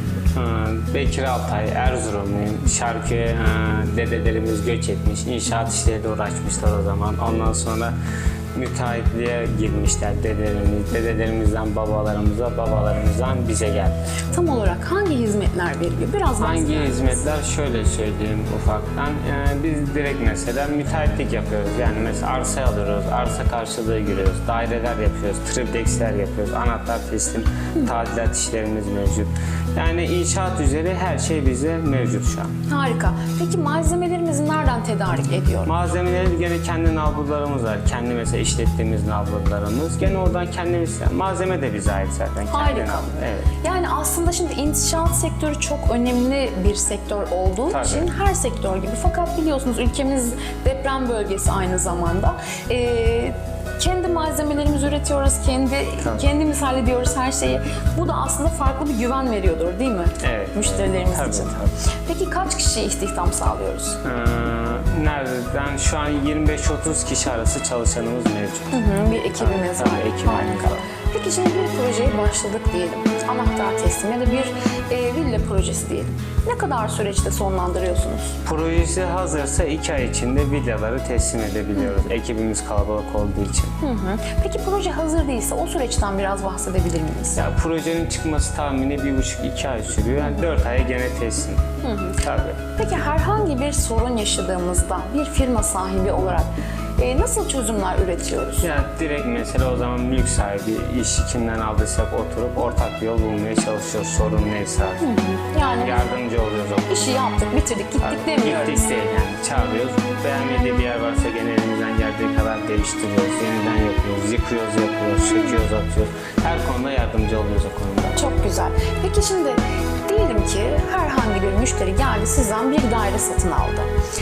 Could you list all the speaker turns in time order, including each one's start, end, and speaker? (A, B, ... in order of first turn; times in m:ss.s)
0:00.3-0:08.0 A
0:08.5-0:14.0 A
0:14.3-0:17.3 B
0:16.4-0:32.5 A
0:32.7-0:35.7 B
0:35.6-0:43.5 A
0:42.5-1:04.0 B
0:47.7-0:48.1 A
0:56.0-0:56.3 A
1:00.2-1:01.7 A
1:04.0-1:08.7 A
1:08.7-1:18.4 B
1:09.4-1:10.8 A
1:18.4-1:23.8 A
1:23.8-1:27.4 B
1:27.4-1:31.6 A
1:31.8-1:32.2 B
1:32.2-1:32.6 A
1:32.7-1:38.7 B
1:38.6-1:45.1 A
1:45.0-1:46.1 B
1:45.8-1:47.1 A
1:46.9-1:48.9 B
1:48.0-1:58.2 A
1:55.3-1:55.6 B
1:58.2-2:03.9 B